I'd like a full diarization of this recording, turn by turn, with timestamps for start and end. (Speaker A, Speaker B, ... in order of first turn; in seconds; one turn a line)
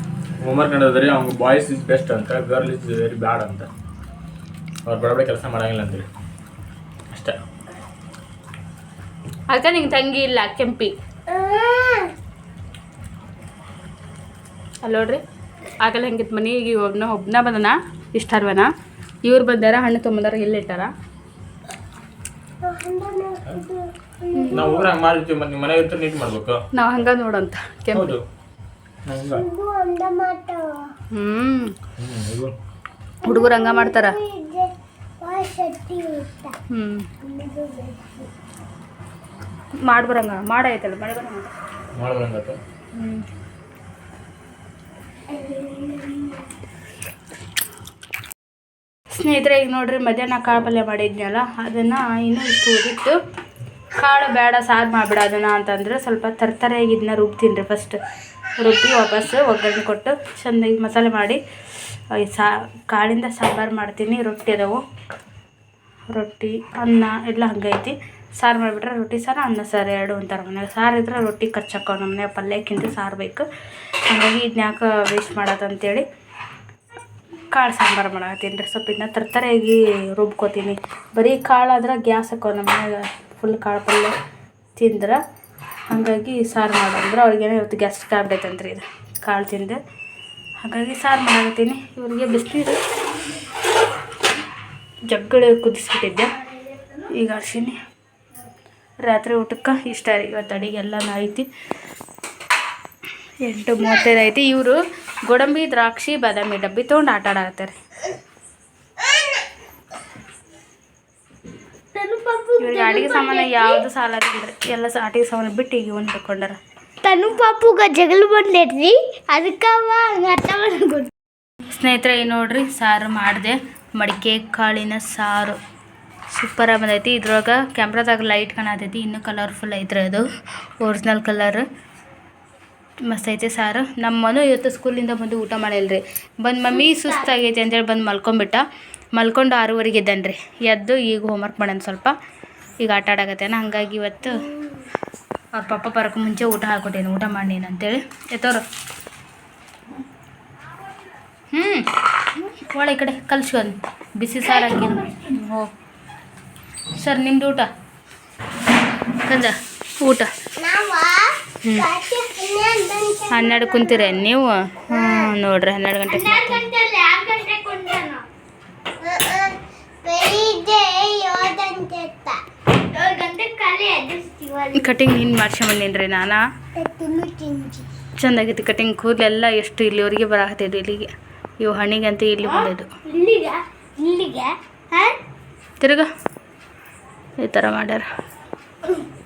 Speaker A: 0.4-3.7
Speaker A: 4.8-6.1
Speaker A: 7.1-7.4
Speaker B: 9.5-10.9
Speaker C: 11.3-12.1
Speaker B: 14.8-15.2
Speaker B: 15.8-18.7
Speaker B: 19.2-20.9
Speaker C: 22.6-24.9
Speaker B: 24.3-24.8
Speaker A: 24.5-26.6
Speaker B: 26.7-28.2
Speaker A: 27.9-28.2
Speaker A: 29.1-29.5
Speaker C: 29.2-30.9
Speaker B: 31.1-31.8
Speaker A: 32.0-32.5
Speaker B: 33.2-34.2
Speaker C: 33.2-36.6
Speaker B: 36.7-37.1
Speaker C: 37.2-38.3
Speaker B: 39.9-41.5
Speaker A: 42.0-42.6
Speaker B: 43.0-43.2
Speaker C: 45.3-46.5
Speaker B: 49.1-53.1
Speaker B: 54.0-58.0
Speaker B: 58.6-61.4
Speaker B: 62.1-64.8
Speaker B: 66.1-73.5
Speaker B: 74.1-76.0
Speaker B: 77.5-84.2
Speaker B: 84.8-85.2
Speaker B: 85.9-89.8
Speaker B: 90.6-92.8
Speaker B: 95.1-96.3
Speaker B: 97.2-97.8
Speaker B: 99.0-101.5
Speaker B: 103.4-104.8
Speaker B: 105.3-107.8
Speaker C: 112.0-113.8
Speaker B: 112.6-116.6
Speaker C: 117.0-121.1
Speaker B: 121.7-125.6
Speaker B: 126.3-130.2
Speaker B: 130.8-131.7
Speaker B: 133.1-138.6
Speaker C: 136.8-137.4
Speaker B: 139.2-142.1
Speaker B: 142.8-144.4
Speaker B: 145.6-148.6
Speaker B: 151.5-155.7
Speaker C: 154.5-155.3
Speaker B: 157.0-157.7
Speaker B: 159.2-160.3
Speaker C: 160.6-164.2
Speaker B: 161.6-161.9
Speaker B: 163.3-166.7
Speaker C: 164.9-165.3
Speaker C: 166.1-168.2
Speaker C: 169.0-174.9
Speaker B: 174.7-176.4
Speaker C: 176.8-177.9
Speaker B: 178.2-182.9
Speaker C: 182.4-185.2
Speaker B: 185.8-186.1
Speaker B: 187.4-188.1